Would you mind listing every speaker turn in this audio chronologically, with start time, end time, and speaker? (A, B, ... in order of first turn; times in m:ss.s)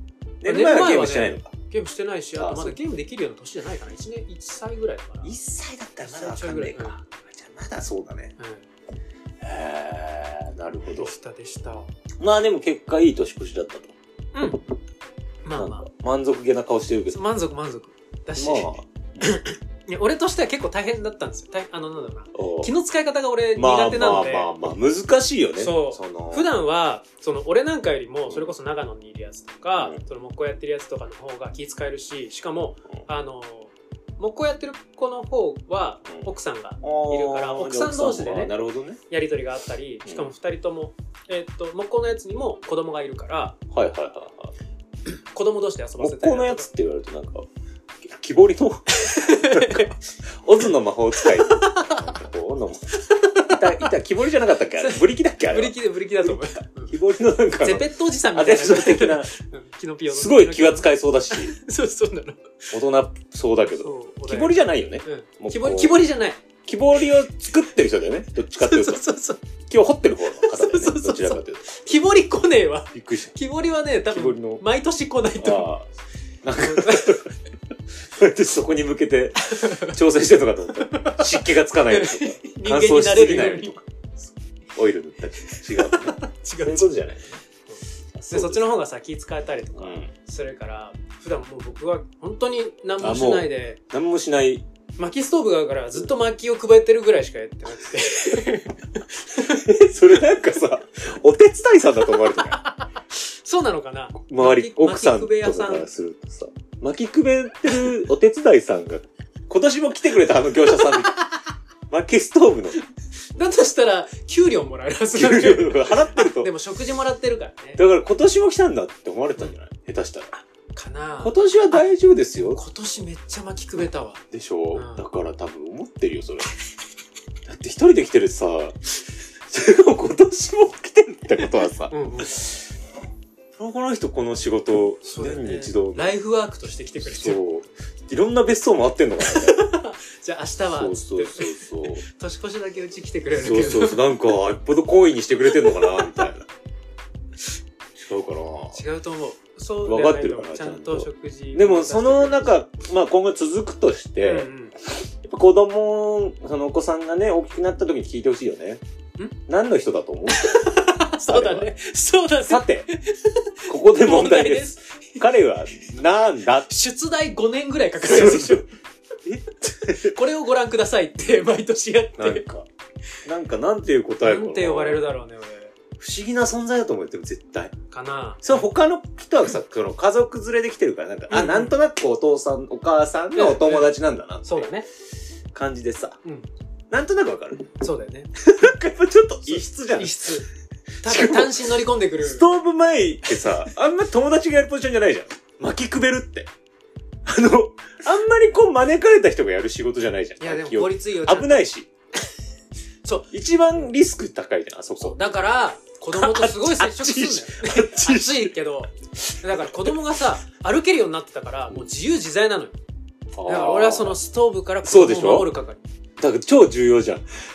0:00.4-0:01.5 A
0:00.4-0:05.3 B
0:02.4-0:02.8 A
0:05.2-0:08.3 A
0:06.0-0:07.0 B
0:08.4-0:08.6 B
0:09.4-0:11.1 A
0:10.9-0:11.9 B
0:12.2-0:13.9 A
0:14.3-0:14.6 B
0:15.4-0:15.8 B
0:15.5-0:17.2 A
0:17.1-0:24.5 B
0:18.4-0:19.4 A
0:22.3-0:22.7 A
0:23.6-0:26.5 A
0:25.6-0:38.5 B
0:28.3-0:28.5 A
0:36.8-0:39.0 A
0:39.1-0:43.6 B
0:40.0-0:40.3 A
0:43.7-0:44.5 A
0:45.3-0:46.7 B
0:46.0-0:47.4 A
0:48.0-0:59.3 A
0:48.9-0:49.9 B
0:51.2-0:52.2 B
0:52.9-0:53.9 B
0:54.8-0:56.9 B
0:57.6-1:02.7 B
1:00.1-1:01.5 A
1:02.7-1:06.0 A
1:03.7-1:06.4 B
1:06.7-1:09.0 A
1:08.6-1:09.4 B
1:09.7-1:11.9 A
1:10.4-1:15.7 B
1:12.9-1:13.3 A
1:14.1-1:14.6 A
1:15.4-1:15.9 A
1:16.4-1:17.3 A
1:16.6-1:17.3 B
1:18.1-1:27.4 A
1:19.4-1:20.0 B
1:20.8-1:23.8 B
1:25.4-1:27.0 B
1:28.1-1:28.7 A
1:28.3-1:33.8 B
1:29.8-1:30.1 A
1:33.0-1:34.6 A
1:35.0-1:39.7 B
1:39.4-1:42.6 A
1:42.4-1:45.9 B
1:44.3-1:51.2 A
1:50.6-1:51.4 B
1:51.9-1:52.8 A
1:53.3-1:57.8 B
1:55.1-1:56.5 A
1:57.8-2:00.3 A
2:00.3-2:05.0 B
2:01.2-2:02.6 A
2:04.3-2:06.5 A
2:07.4-2:08.9 A
2:09.5-2:12.7 A
2:11.9-2:12.4 B
2:13.6-2:16.1 A
2:15.0-2:17.4 B
2:17.0-2:19.6 A
2:19.2-2:24.0 B
2:20.7-2:22.0 A
2:23.3-2:26.4 A
2:25.6-2:26.2 B
2:28.0-2:28.8 A
2:28.7-2:32.6 B
2:29.8-2:38.8 A
2:34.2-2:34.7 B
2:39.5-2:41.7 A
2:40.3-2:45.2 B
2:42.5-2:42.9 A
2:43.7-2:46.7 A
2:46.7-2:48.7 B
2:48.0-2:48.6 A
2:49.2-2:50.2 A
2:50.0-2:52.4 B
2:52.2-2:52.6 A
2:53.2-2:55.0 A
2:54.2-2:55.7 B
2:56.0-2:57.7 A
2:57.9-2:58.7 B
2:58.4-3:04.7 A
3:01.3-3:01.7 B
3:03.3-3:04.8 B
3:05.5-3:06.2 A
3:06.9-3:07.7 A
3:07.8-3:08.7 B
3:08.4-3:10.4 A
3:09.4-3:10.5 B
3:11.0-3:12.5 B
3:11.0-3:16.5 A
3:17.2-3:21.9 A
3:20.4-3:21.7 B
3:23.0-3:23.9 B
3:23.3-3:25.2 A
3:25.0-3:32.8 B
3:26.1-3:28.5 A
3:29.3-3:30.0 A
3:33.4-3:34.2 A
3:33.4-3:35.8 B
3:34.8-3:35.5 A
3:36.2-3:37.2 A